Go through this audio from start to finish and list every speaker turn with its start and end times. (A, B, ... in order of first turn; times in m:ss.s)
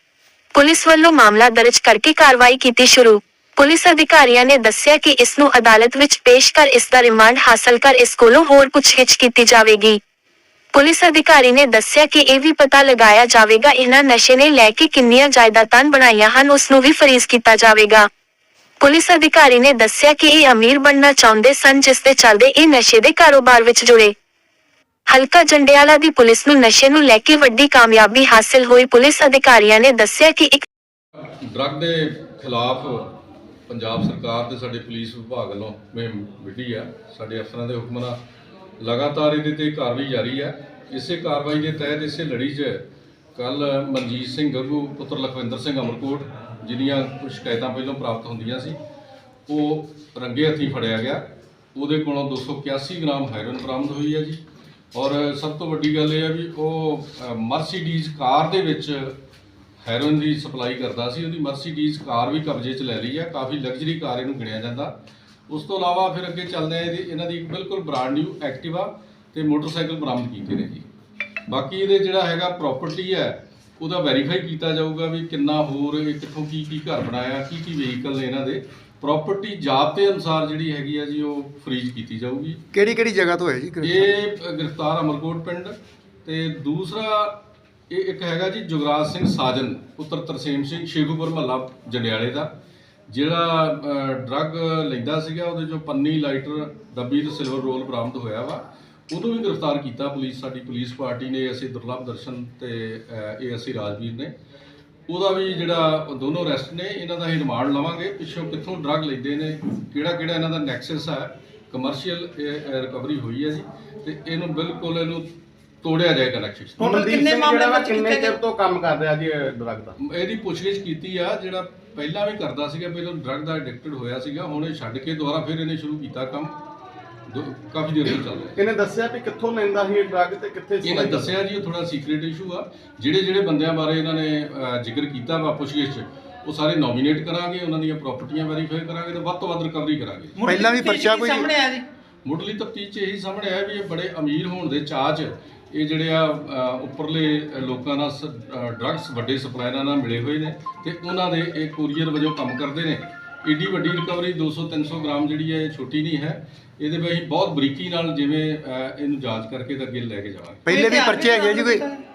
0:00.5-0:10.0 A
0:10.7-0:18.1 A
0:18.8-0:24.1 A
0:25.1-0:30.6 A
0:31.4-0:33.1 B
0:33.7-0:38.2 B
0:38.8-0:42.8 B
0:43.4-0:48.8 B
0:49.5-0:54.4 B
0:54.9-0:59.2 B
0:59.8-1:05.0 B
1:05.5-1:10.9 B
1:11.5-1:22.6 B
1:22.7-1:24.1 C
1:23.8-1:32.5 B
1:33.1-1:44.3 B
1:45.1-1:55.3 B
1:55.8-1:56.8 B
1:56.8-2:00.0 D
1:56.8-1:58.4 E
2:00.0-2:06.6 B
2:07.3-2:08.6 B
2:08.6-2:11.4 D
2:10.8-2:20.4 B
2:20.4-2:21.8 E
2:20.4-2:21.5 C
2:22.2-2:40.6 B
2:40.6-2:41.8 C
2:40.7-2:42.0 E